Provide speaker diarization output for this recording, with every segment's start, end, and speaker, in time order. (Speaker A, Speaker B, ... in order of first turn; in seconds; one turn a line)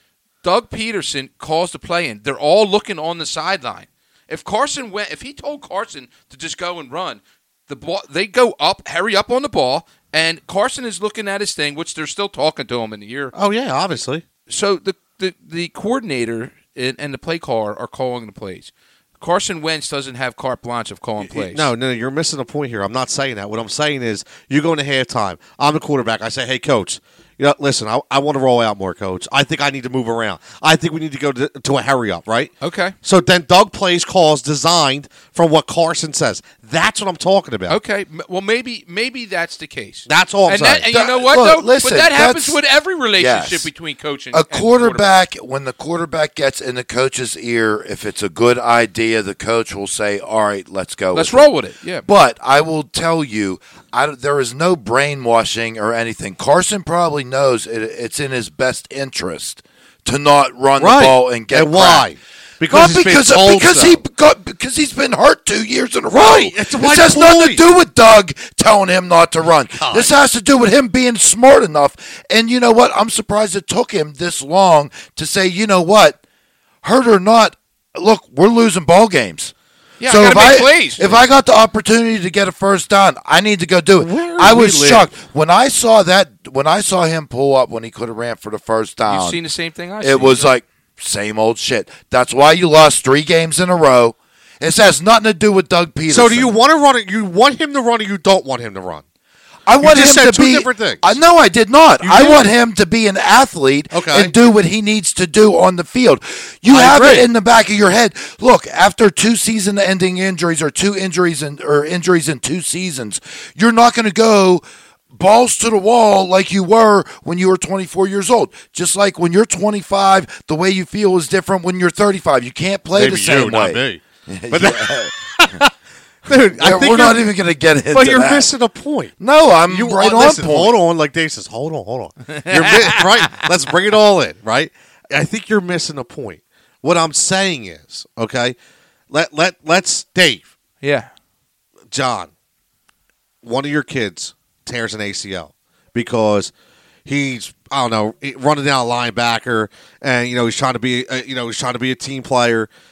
Speaker A: 0.4-13.3
Speaker B: 13.3-14.2
Speaker A: 14.5-21.7
Speaker B: 21.2-37.8
Speaker A: 32.6-32.9
Speaker A: 37.7-45.1
Speaker B: 40.1-40.9
Speaker C: 40.9-42.6
Speaker C: 43.2-43.7
Speaker C: 44.3-51.5
Speaker A: 51.1-52.0
Speaker C: 52.0-62.1
Speaker B: 60.8-64.0
Speaker C: 62.7-76.2
Speaker B: 66.1-67.6
Speaker B: 69.7-70.1
Speaker C: 76.8-79.5
Speaker A: 80.0-81.2
Speaker C: 80.1-89.4
Speaker B: 84.0-85.1
Speaker A: 89.1-90.5
Speaker C: 90.0-96.5
Speaker B: 96.1-99.0
Speaker C: 99.7-125.1
Speaker B: 99.8-101.2
Speaker B: 102.0-102.4
Speaker B: 103.9-104.3
Speaker B: 106.7-107.3
Speaker B: 122.9-125.7
Speaker B: 126.2-127.3
Speaker C: 126.6-128.5
Speaker B: 127.9-129.1
Speaker C: 129.2-130.7
Speaker B: 129.7-138.6
Speaker A: 132.3-133.5
Speaker B: 139.1-140.5
Speaker A: 140.8-141.1
Speaker B: 141.9-142.3
Speaker B: 143.4-146.5
Speaker B: 147.1-152.7